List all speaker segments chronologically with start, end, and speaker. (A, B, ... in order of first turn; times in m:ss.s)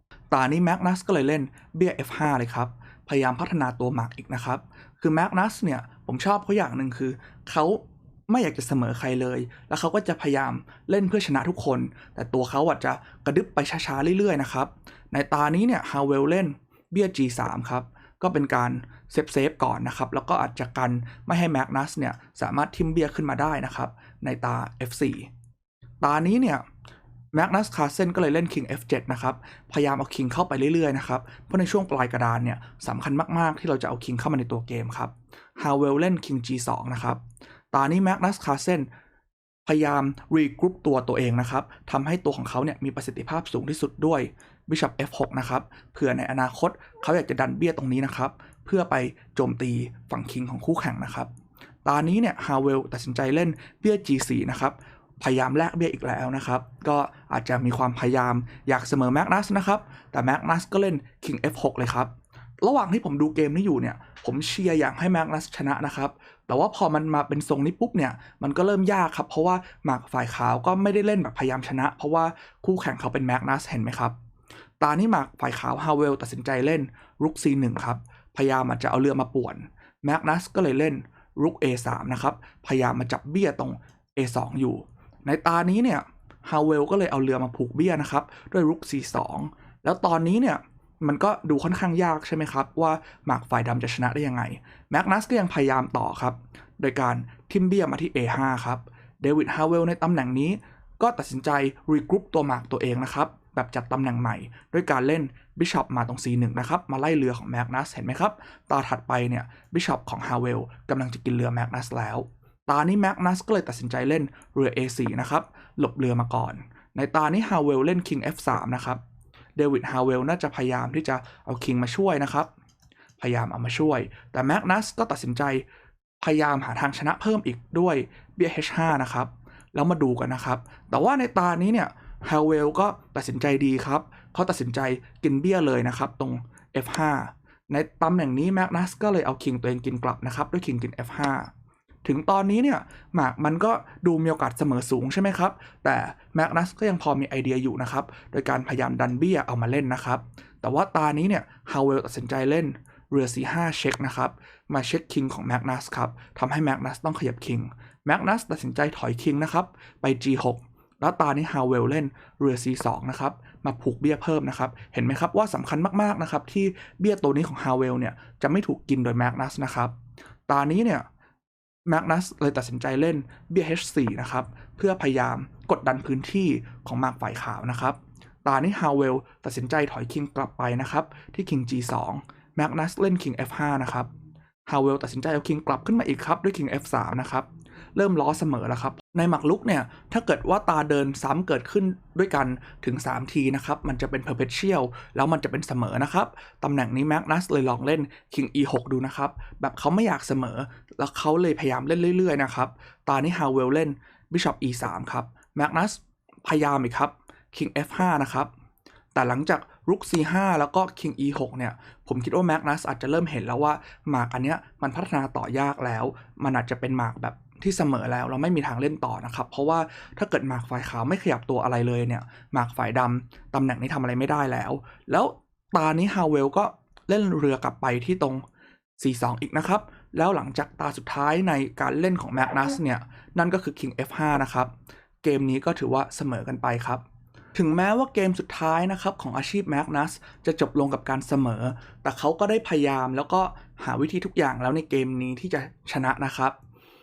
0:00.3-0:25.3 A
0:26.0-0:26.6 A
0:27.3-0:37.2 A
0:37.7-0:38.9 A
0:39.6-0:51.3 A
0:51.8-1:14.1 A
1:14.8-1:59.0 A
1:59.6-2:02.5 A
2:03.2-2:05.6 A
2:06.2-2:21.5 A
2:22.0-2:49.9 A
2:50.5-2:51.0 A
2:51.9-3:04.1 A
3:04.7-3:28.5 A
3:29.1-3:48.4 A
3:49.0-3:54.7 A
3:55.2-3:57.0 A
3:57.5-4:06.6 A